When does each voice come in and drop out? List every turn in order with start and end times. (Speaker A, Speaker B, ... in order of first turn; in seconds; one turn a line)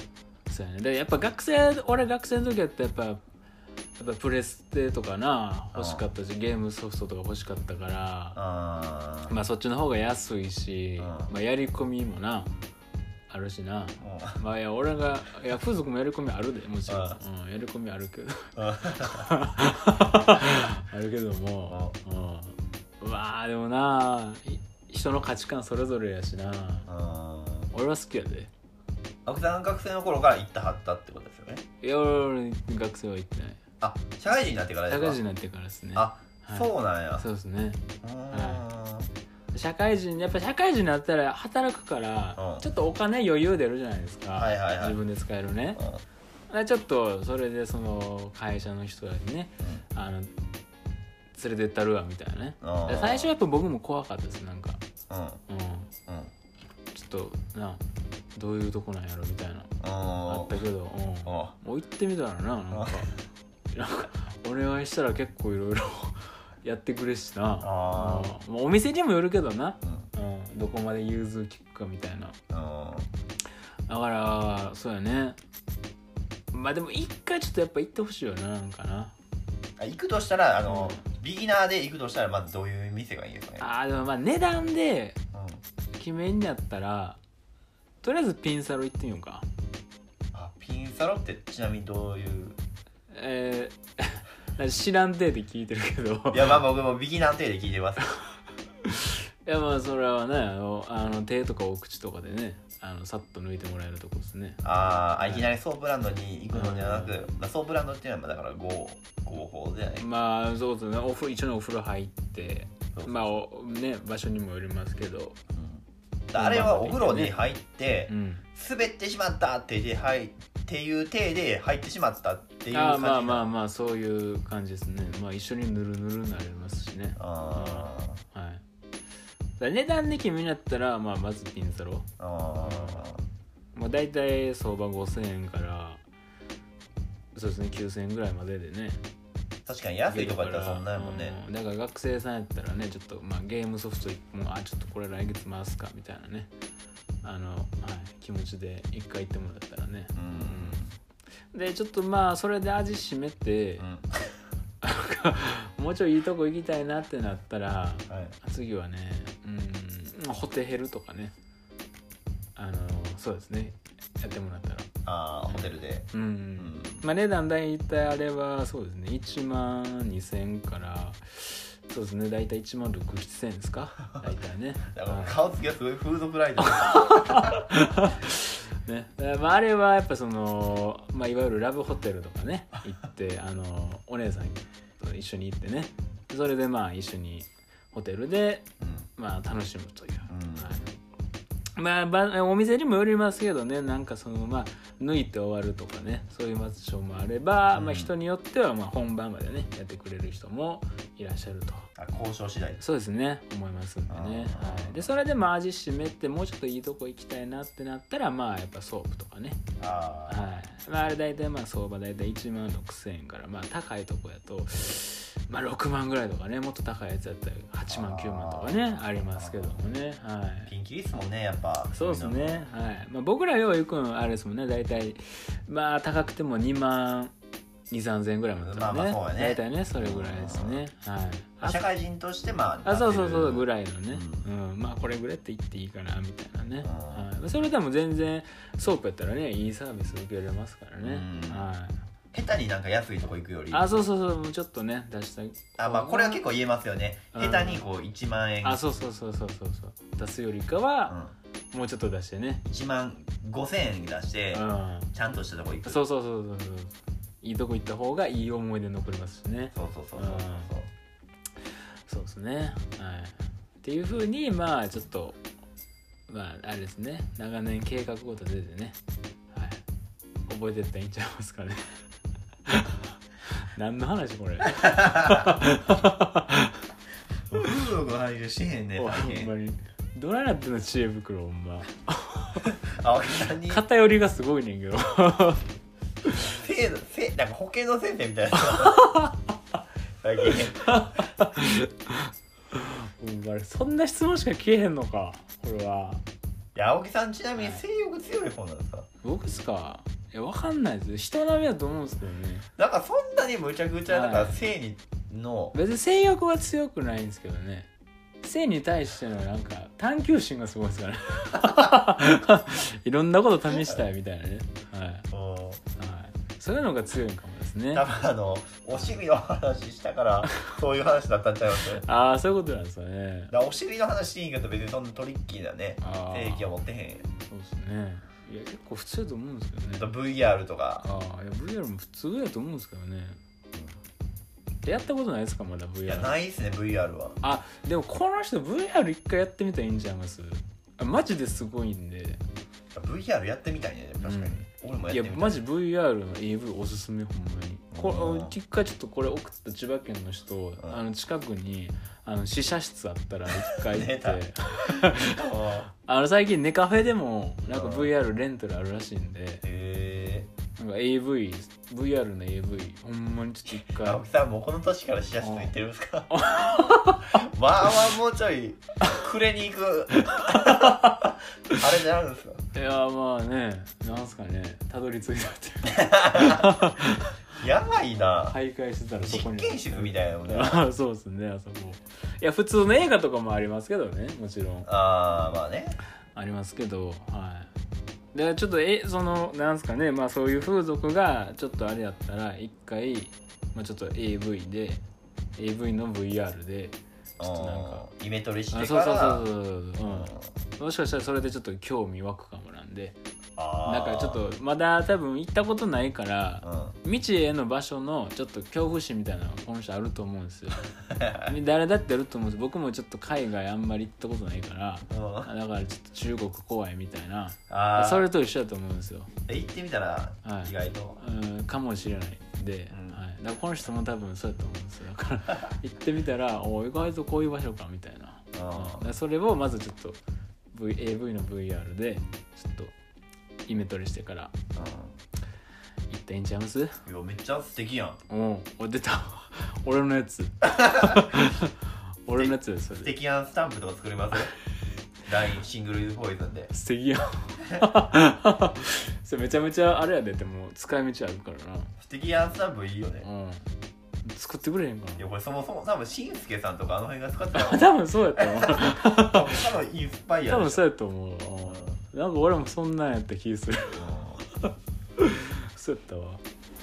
Speaker A: 0.5-3.2
Speaker A: 4.0-8.4
Speaker B: 5.7-6.0
Speaker B: 8.3-9.3
Speaker A: 9.3-12.5
Speaker B: 11.0-11.3
Speaker A: 13.3-26.9
Speaker B: 14.0-14.4
Speaker B: 16.9-17.2
Speaker B: 18.6-19.3
Speaker B: 21.7-21.9
Speaker B: 26.9-27.7
Speaker A: 27.7-28.5
Speaker B: 29.2-31.6
Speaker A: 31.8-33.6
Speaker B: 33.8-35.2
Speaker A: 34.9-38.6
Speaker B: 35.9-37.2
Speaker B: 38.0-39.1
Speaker A: 39.5-45.8
Speaker B: 42.4-42.6
Speaker B: 44.4-45.0
Speaker B: 45.8-46.0
Speaker A: 46.5-50.3
Speaker A: 51.3-54.8
Speaker B: 52.6-53.3
Speaker B: 55.1-55.4
Speaker A: 55.5-55.9
Speaker B: 56.1-56.3
Speaker A: 56.9-57.8
Speaker A: 58.3-59.7
Speaker B: 59.8-60.6
Speaker A: 60.3-63.1
Speaker B: 61.2-61.5
Speaker B: 62.7-63.1
Speaker A: 63.7-72.4
Speaker B: 67.6-68.3
Speaker B: 69.8-70.1
Speaker B: 72.5-73.1
Speaker A: 73.9-75.4
Speaker A: 76.5-79.1
Speaker B: 79.8-83.7
Speaker A: 80.7-81.0
Speaker A: 83.6-85.2
Speaker B: 85.3-85.6
Speaker A: 85.9-87.2
Speaker A: 88.0-89.5
Speaker B: 90.3-92.6
Speaker A: 93.1-96.6
Speaker B: 96.3-98.0
Speaker A: 98.9-104.6
Speaker B: 104.6-110.0
Speaker A: 105.2-105.5
Speaker A: 106.5-107.2
Speaker A: 110.0-115.4
Speaker B: 112.9-113.3
Speaker B: 115.5-123.4
Speaker A: 116.3-117.4
Speaker A: 118.1-118.4
Speaker A: 122.7-128.6
Speaker B: 127.2-128.2
Speaker A: 129.6-132.1
Speaker B: 132.2-133.2
Speaker A: 132.6-133.0
Speaker A: 133.7-136.0
Speaker A: 137.3-139.0
Speaker B: 139.7-141.4
Speaker A: 140.1-146.5
Speaker A: 147.2-150.8
Speaker B: 150.1-150.9
Speaker A: 151.5-153.8
Speaker B: 153.8-154.1
Speaker A: 154.8-161.3
Speaker B: 158.1-158.3
Speaker A: 162.6-164.9
Speaker B: 165.1-167.1
Speaker A: 165.5-175.4
Speaker B: 174.9-177.6
Speaker A: 176.7-190.9
Speaker B: 188.8-189.1
Speaker B: 190.3-190.8
Speaker A: 191.8-201.9
Speaker B: 197.7-198.1
Speaker B: 201.9-202.8
Speaker A: 202.8-209.6
Speaker B: 204.1-205.1
Speaker B: 209.8-210.5
Speaker A: 210.3-220.7
Speaker B: 217.9-219.8
Speaker B: 220.7-222.7
Speaker A: 221.9-227.3
Speaker A: 227.9-231.8
Speaker B: 228.6-230.8
Speaker B: 231.6-234.4
Speaker A: 232.8-242.0
Speaker B: 236.8-237.3
Speaker B: 241.0-241.7
Speaker B: 242.3-244.1
Speaker A: 243.7-246.4
Speaker B: 245.8-248.8
Speaker A: 247.3-247.8
Speaker A: 248.6-251.1
Speaker B: 251.1-251.3
Speaker A: 251.7-252.6
Speaker B: 252.6-256.0
Speaker A: 254.5-255.1
Speaker A: 255.8-260.7
Speaker B: 259.7-260.9
Speaker A: 262.1-265.4
Speaker A: 266.3-269.0
Speaker A: 269.5-269.8
Speaker A: 270.5-272.0
Speaker A: 273.7-276.8
Speaker B: 274.7-275.3
Speaker B: 277.5-279.5
Speaker A: 278.9-282.7
Speaker B: 282.8-283.8
Speaker A: 283.6-285.6
Speaker B: 286.4-289.0
Speaker A: 288.6-289.4
Speaker B: 290.2-291.1
Speaker A: 290.8-296.2
Speaker B: 296.7-299.1
Speaker A: 297.6-297.8
Speaker A: 299.2-302.7
Speaker B: 302.8-305.7
Speaker A: 304.1-304.6
Speaker A: 305.7-307.9
Speaker A: 308.4-315.3
Speaker B: 313.7-314.0
Speaker B: 315.3-315.8
Speaker A: 315.9-318.1
Speaker B: 317.9-322.0
Speaker A: 321.9-323.5
Speaker B: 323.5-327.3
Speaker A: 326.0-326.8
Speaker A: 327.4-330.1
Speaker B: 329.9-331.0
Speaker A: 331.0-333.4
Speaker A: 334.8-336.4
Speaker B: 336.0-337.4
Speaker A: 337.4-342.4
Speaker B: 342.9-345.6
Speaker A: 344.2-359.6
Speaker B: 347.9-348.5
Speaker B: 353.6-354.4
Speaker B: 355.1-355.9
Speaker B: 357.7-358.1
Speaker B: 359.6-360.5
Speaker A: 360.8-364.2
Speaker B: 363.8-372.6
Speaker A: 365.4-365.7
Speaker A: 366.3-367.3
Speaker A: 370.3-371.2
Speaker A: 372.7-377.3
Speaker B: 375.8-376.7
Speaker B: 377.6-378.6
Speaker A: 378.2-384.9
Speaker B: 379.2-380.8
Speaker B: 384.9-385.9
Speaker A: 386.3-387.7
Speaker A: 388.3-395.0
Speaker A: 395.6-398.0
Speaker B: 397.4-399.4
Speaker A: 398.7-403.1
Speaker B: 400.0-400.5
Speaker B: 403.6-404.4
Speaker A: 403.8-410.9
Speaker B: 406.6-406.9
Speaker B: 411.1-411.5
Speaker A: 411.4-419.3
Speaker B: 415.1-415.5
Speaker B: 417.7-418.3
Speaker B: 419.5-421.2
Speaker A: 420.4-430.2
Speaker B: 422.9-423.2
Speaker B: 428.5-429.1
Speaker A: 430.7-432.9
Speaker A: 433.7-434.5
Speaker B: 434.7-435.1
Speaker A: 436.1-437.0
Speaker B: 437.1-438.2
Speaker A: 438.3-441.7
Speaker A: 442.2-443.1
Speaker B: 442.3-444.5
Speaker B: 445.2-446.7
Speaker A: 446.7-451.9
Speaker B: 452.0-453.3
Speaker A: 453.2-453.7
Speaker A: 454.2-455.3
Speaker B: 455.2-460.9
Speaker A: 457.5-459.6
Speaker A: 460.4-466.4
Speaker B: 461.6-461.9
Speaker B: 463.9-464.4